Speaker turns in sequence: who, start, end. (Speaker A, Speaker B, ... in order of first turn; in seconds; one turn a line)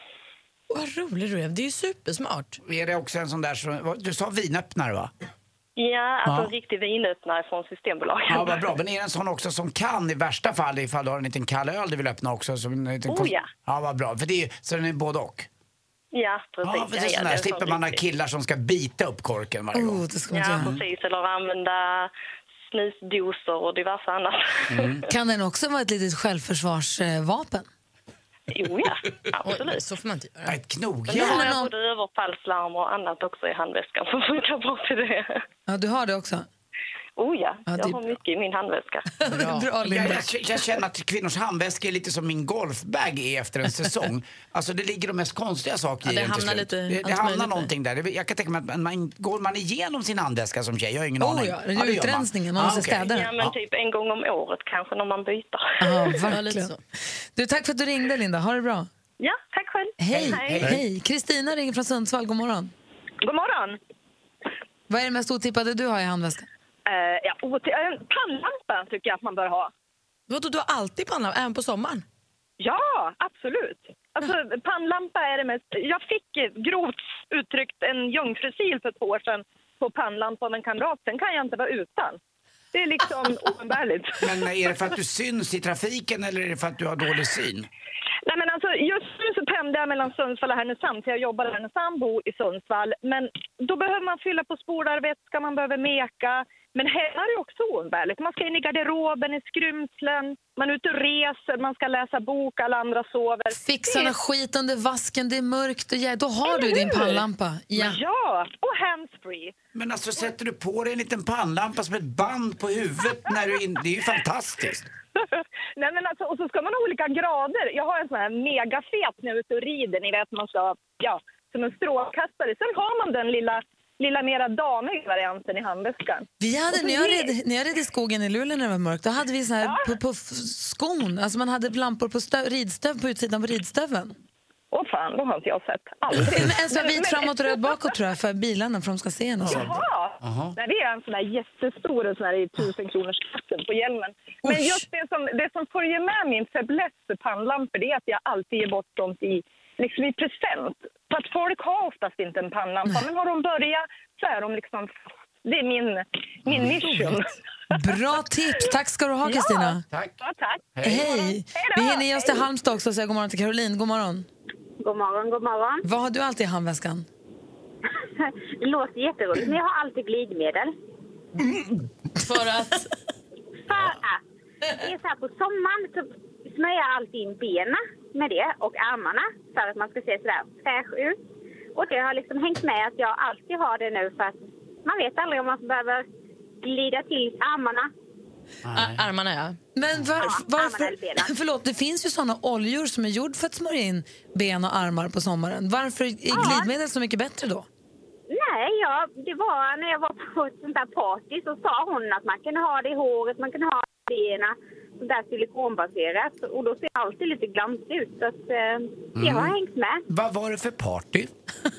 Speaker A: 0.7-2.6
Speaker B: 2.6-5.1
Speaker C: 5.8-8.6
Speaker B: 6.2-6.5
Speaker B: 8.3-15.5
Speaker C: 13.1-13.5
Speaker C: 16.1-18.0
Speaker B: 16.6-20.0
Speaker D: 19.7-20.7
Speaker C: 20.3-22.1
Speaker B: 20.6-20.8
Speaker C: 22.7-24.9
Speaker B: 24.7-25.0
Speaker D: 25.1-27.7
Speaker C: 28.5-29.8
Speaker A: 29.4-30.6
Speaker B: 30.4-31.5
Speaker C: 31.1-35.4
Speaker D: 31.1-31.7
Speaker D: 35.7-36.5
Speaker C: 37.2-39.1
Speaker D: 37.7-38.0
Speaker D: 39.2-40.3
Speaker B: 39.3-53.5
Speaker A: 46.0-47.7
Speaker D: 51.2-53.4
Speaker C: 53.0-56.1
Speaker D: 55.8-56.7
Speaker A: 56.3-56.8
Speaker D: 57.4-58.9
Speaker C: 59.2-60.6
Speaker D: 60.0-62.7
Speaker B: 60.1-60.8
Speaker E: 63.3-63.7
Speaker D: 64.9-66.5
Speaker E: 66.9-69.7
Speaker A: 70.3-72.0
Speaker E: 72.6-82.2
Speaker E: 82.7-84.1
Speaker B: 84.2-87.7
Speaker E: 88.3-103.5
Speaker D: 103.5-108.0
Speaker E: 106.6-107.2
Speaker E: 107.8-109.5
Speaker B: 109.7-114.9
Speaker E: 115.8-126.2
Speaker D: 126.4-134.2
Speaker E: 126.9-127.1
Speaker E: 134.7-137.2
Speaker D: 136.2-139.8
Speaker B: 139.4-140.6
Speaker E: 139.5-154.9
Speaker D: 144.5-144.8
Speaker E: 155.5-157.2
Speaker D: 157.7-159.8
Speaker E: 160.4-161.2
Speaker B: 160.8-161.1
Speaker D: 160.8-164.3
Speaker E: 161.8-162.4
Speaker F: 164.8-165.8
Speaker D: 165.8-167.1
Speaker F: 168.2-170.7
Speaker A: 172.2-172.9
Speaker F: 173.7-174.2
Speaker F: 174.8-181.2
Speaker F: 181.8-186.1
Speaker F: 186.6-187.9
Speaker B: 188.7-189.0
Speaker A: 188.7-189.6
Speaker D: 189.8-197.7
Speaker F: 190.2-191.3
Speaker F: 196.3-196.7
Speaker F: 198.3-210.0
Speaker B: 209.2-209.6
Speaker B: 210.1-211.3